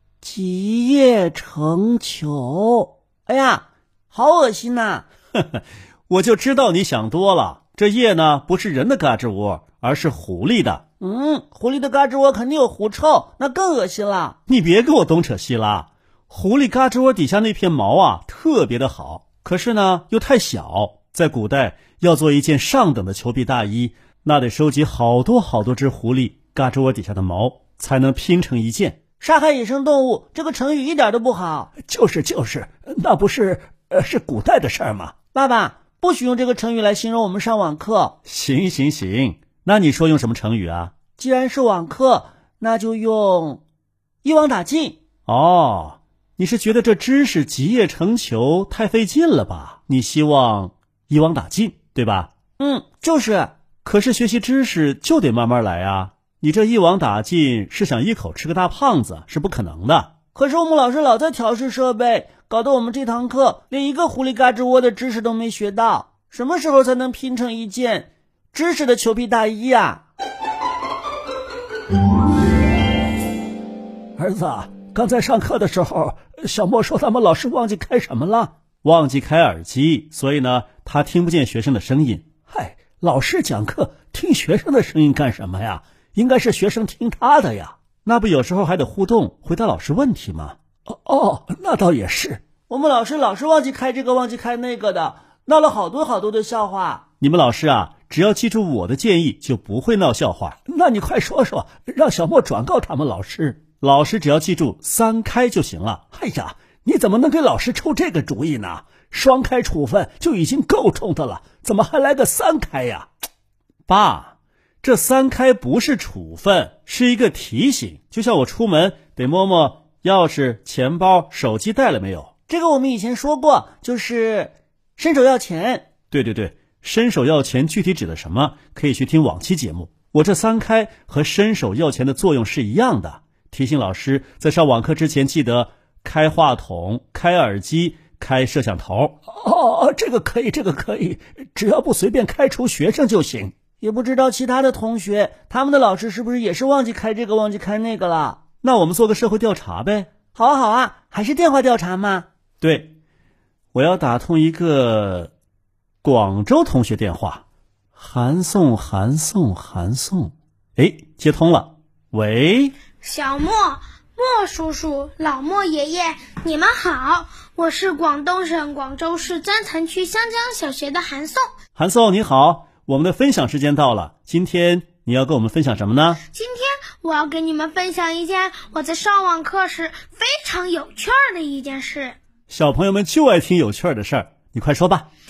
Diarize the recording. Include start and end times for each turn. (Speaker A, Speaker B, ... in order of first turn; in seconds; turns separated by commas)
Speaker A: 0.2-5.0, Speaker B: 5.3-10.8, Speaker A: 11.0-14.4, Speaker B: 14.5-29.0, Speaker A: 29.2-31.7, Speaker C: 31.8-35.1, Speaker A: 35.3-38.2, Speaker B: 38.2-41.0, Speaker A: 41.2-43.6, Speaker A: 44.2-45.0, Speaker B: 45.3-52.3, Speaker A: 52.6-53.5, Speaker B: 53.9-60.1, Speaker A: 60.3-70.0, Speaker C: 74.2-78.5, Speaker B: 78.8-82.3, Speaker C: 82.5-87.8, Speaker B: 88.0-90.6, Speaker C: 90.9-92.4, Speaker A: 92.7-97.0, Speaker B: 97.2-100.6, Speaker C: 100.7-103.8, Speaker B: 103.8-106.0, Speaker C: 106.1-113.1, Speaker B: 113.9-122.3, Speaker A: 122.5-125.9, Speaker B: 126.1-139.2, Speaker C: 139.3-143.5, Speaker A: 143.8-148.4, Speaker B: 148.6-150.1, Speaker A: 150.3-152.3, Speaker B: 152.6-152.9, Speaker B: 153.7-155.3, Speaker B: 156.0-157.4, Speaker B: 157.9-162.8, Speaker D: 163.0-171.5, Speaker B: 171.8-176.2, Speaker D: 176.3-182.2, Speaker B: 182.5-185.1